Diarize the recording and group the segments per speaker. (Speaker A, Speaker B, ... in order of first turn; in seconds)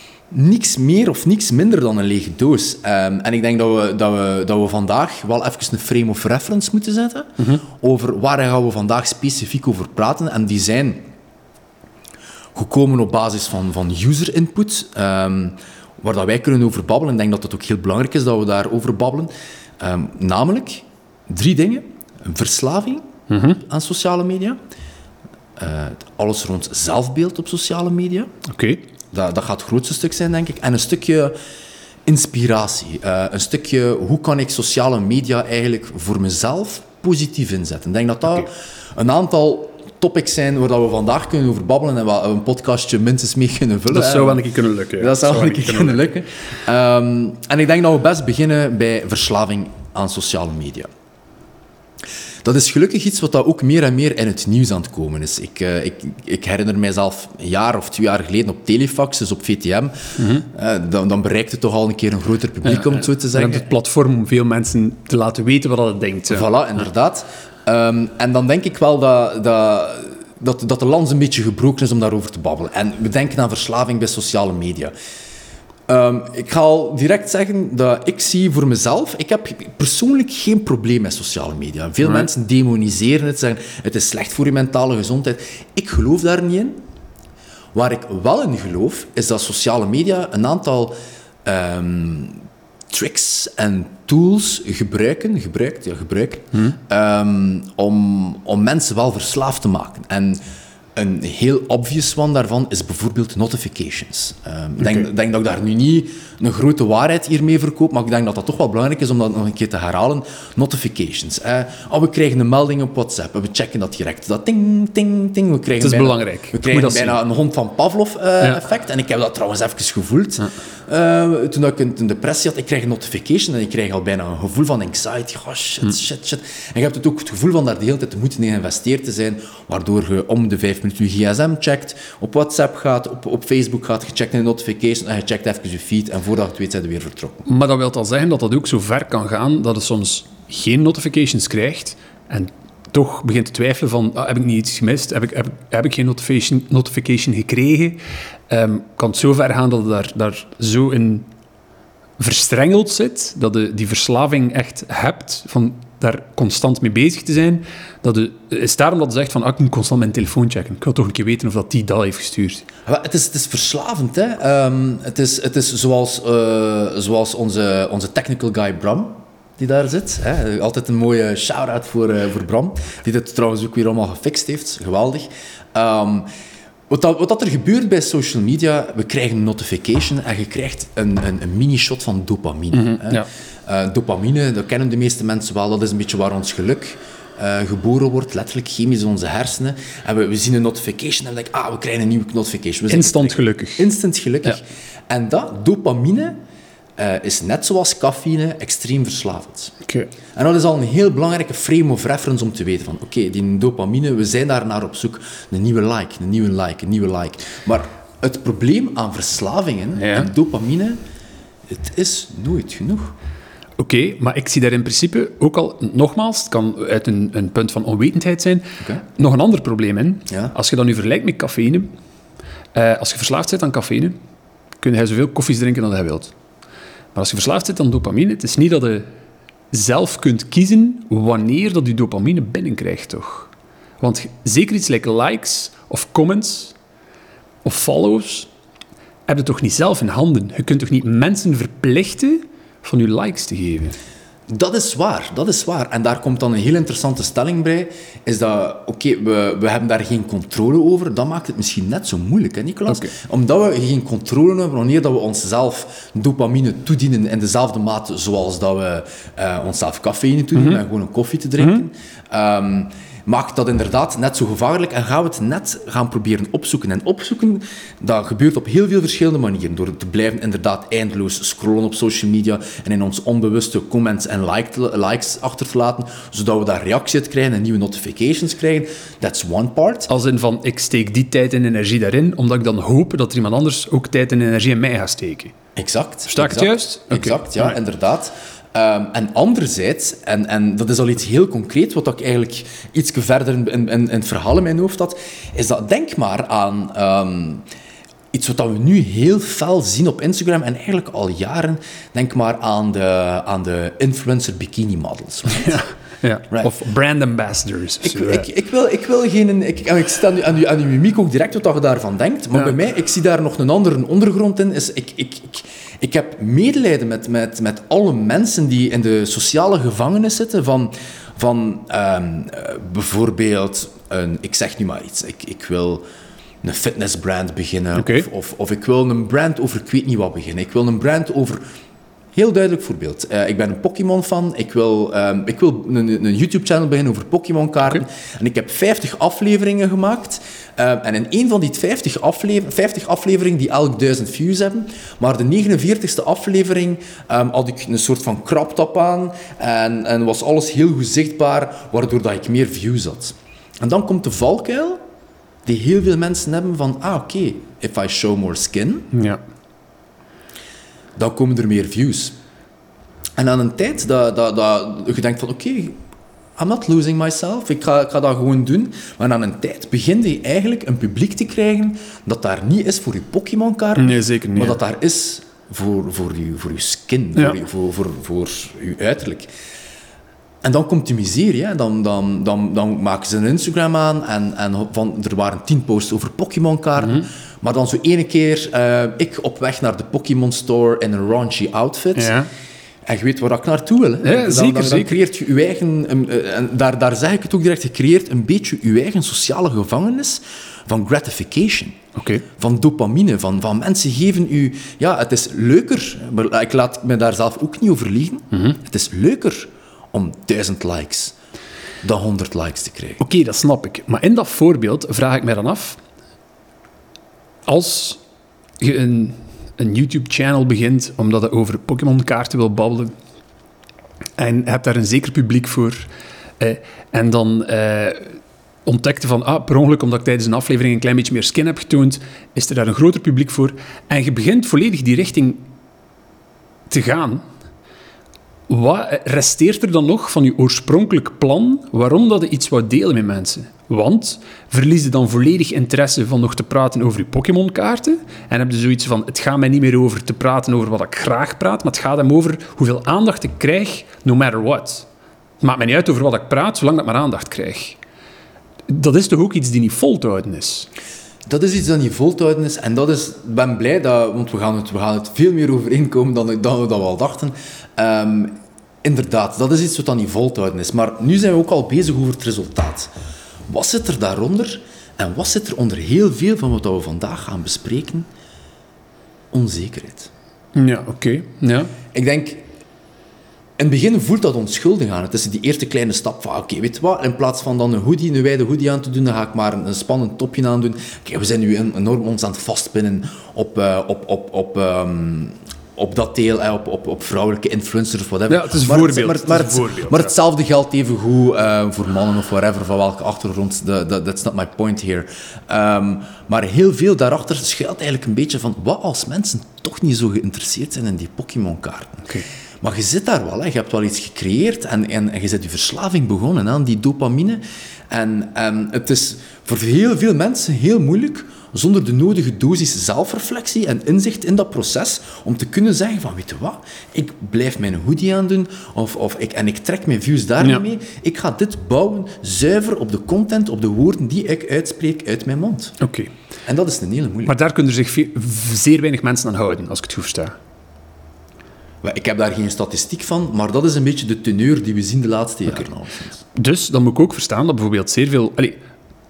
Speaker A: 0.3-11.0, 12.6-23.0, 23.6-24.6, 25.6-28.3, 29.1-31.3, 32.1-50.9, 52.4-63.7, 66.3-74.9, 75.9-86.8, 87.7-90.9, 91.5-100.4, 101.0-137.4, 162.9-176.3, 176.9-196.4, 197.0-199.7, 200.3-211.0, 211.7-213.1, 220.3-220.6, 244.5-280.1, 285.8-297.6, 298.3-305.8, 306.5-306.8, 308.0-326.0, 326.6-331.6, 332.4-355.0, 355.7-359.1, 361.2-362.4, 363.4-366.0, 366.6-379.5, 380.6-392.4, 393.1-402.0, 402.6-411.4, 412.0-413.2, 461.5-473.1, 473.7-478.3, 479.5-480.3, 482.1-482.7, 483.8-512.2, 512.8-536.0, 536.7-537.5, 542.0-546.4
Speaker B: 7.4-7.6, 23.3-23.6, 28.5-28.8, 43.9-46.1, 60.2-60.5, 62.6-66.5, 82.0-82.3, 104.8-105.1, 115.8-117.2, 137.5-151.3, 152.2-162.7, 182.7-183.3, 192.9-193.9, 199.9-200.1, 210.0-210.3, 213.8-221.9, 222.7-224.2, 224.8-226.3, 227.2-229.1, 229.7-236.8, 237.6-238.5, 239.3-244.0, 260.6-260.8, 261.6-261.9, 280.1-285.5, 286.3-287.8, 305.5-308.5, 328.0-328.3, 359.1-359.4, 374.0-374.8, 387.0-387.3, 392.2-392.5, 394.2-395.2, 402.2-402.4, 408.5-408.8, 413.2-416.0, 417.7-418.2, 418.8-423.1, 424.4-426.1, 426.6-435.7, 436.9-437.4, 438.7-455.1, 455.6-458.0, 458.9-460.9, 480.8-481.9, 498.5-500.3, 536.0-536.3, 537.5-540.6, 546.5-548.8